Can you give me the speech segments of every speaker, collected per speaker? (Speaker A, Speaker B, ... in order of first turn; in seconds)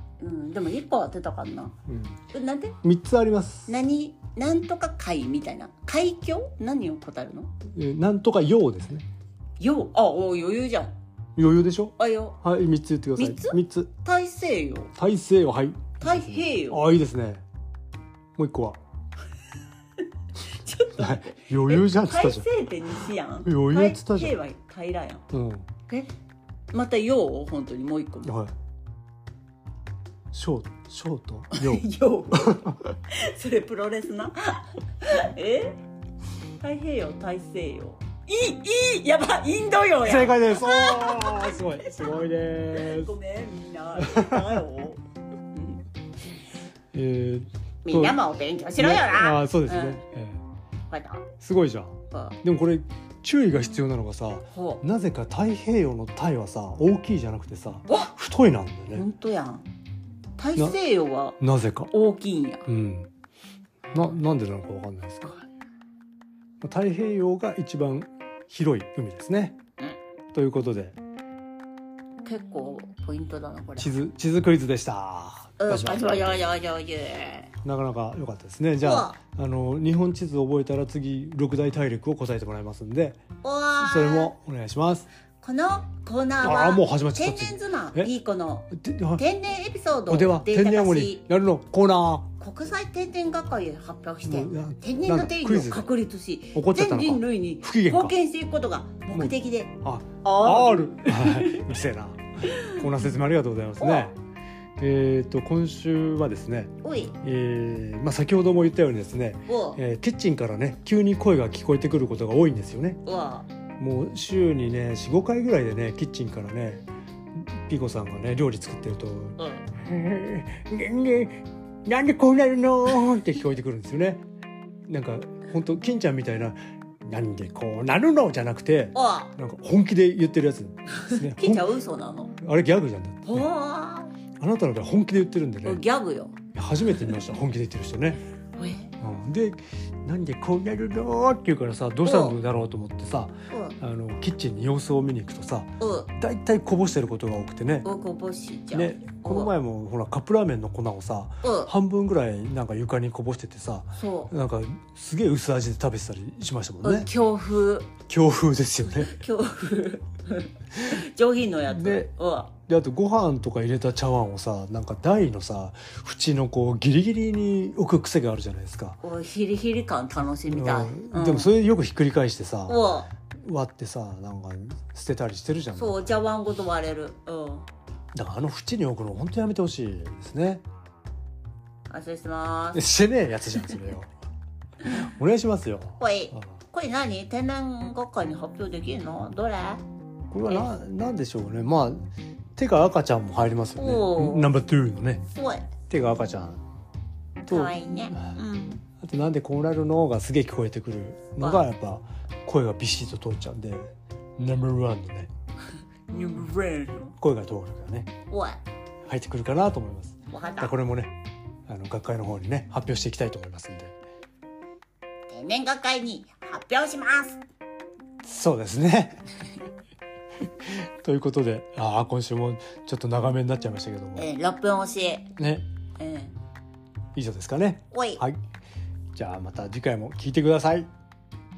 Speaker A: 0.2-1.8, 2.3-2.8, 3.7-7.5, 9.6-10.9, 12.0-12.4, 13.2-14.9, 16.0-16.9, 20.5-25.2, 26.7-28.3, 31.5-35.8, 36.6-45.0, 45.5-45.8, 47.8-50.0, 50.9-51.2, 52.1-52.4, 54.5-54.8, 58.9-59.7, 60.4-61.4, 61.9-62.7, 72.2-74.0, 75.6-77.5, 78.8-79.2, 83.4-84.3, 85.4-91.3, 92.4-101.7, 102.5-102.8, 103.8-104.1, 106.8-107.2, 109.5-109.8, 113.0-113.5, 119.4-119.7, 128.9-129.3, 130.9-132.3, 133.2-134.1, 135.6-136.4, 138.6-138.9, 142.0-142.4, 143.5-143.8, 145.8-146.1, 147.8-149.5, 151.4-151.7, 153.9-154.3, 156.8-157.9, 158.8-162.5, 169.0-171.5, 172.7-173.1, 175.8-177.7, 181.9-182.8, 186.0-189.8, 193.8-194.5, 195.3-195.7, 197.4-198.8, 206.1-207.2, 208.3-208.6, 210.3-210.7, 215.3-217.4, 224.2-225.3, 226.0-226.3, 227.9-228.2
Speaker B: 1.9-2.2, 2.8-3.8, 7.7-9.1, 11.3-13.9, 14.9-17.4, 18.3-18.8, 20.9-22.5, 23.4-24.4, 25.3-25.7, 28.2-28.5, 30.3-32.8, 40.0-43.1, 44.0-44.6, 46.9-48.2, 48.8-50.4, 51.4-59.0, 61.4-61.9, 62.7-63.1, 63.9-65.3, 66.6-69.6, 70.3-71.0, 73.8-76.5, 77.6-83.2, 83.8-85.1, 86.4-88.1, 88.7-89.2, 90.1-92.3, 94.2-95.9, 96.5-98.2, 99.1-104.2, 104.8-113.0, 113.8-124.2, 124.9-131.8, 132.4-133.5, 134.4-135.8, 136.5-138.2, 139.0-147.9, 148.7-157.1, 158.1-159.2, 161.7-169.0, 170.5-172.8, 173.3-176.1, 178.1-180.6, 182.7-184.1, 184.8-186.5, 190.3-195.2, 195.9-196.6, 197.5-198.3, 199.0-205.3, 207.2-208.1, 209.0-211.1, 211.7-213.9, 218.2-219.2, 220.5-224.3, 225.4-225.7, 227.1-228.4, 229.1-230.9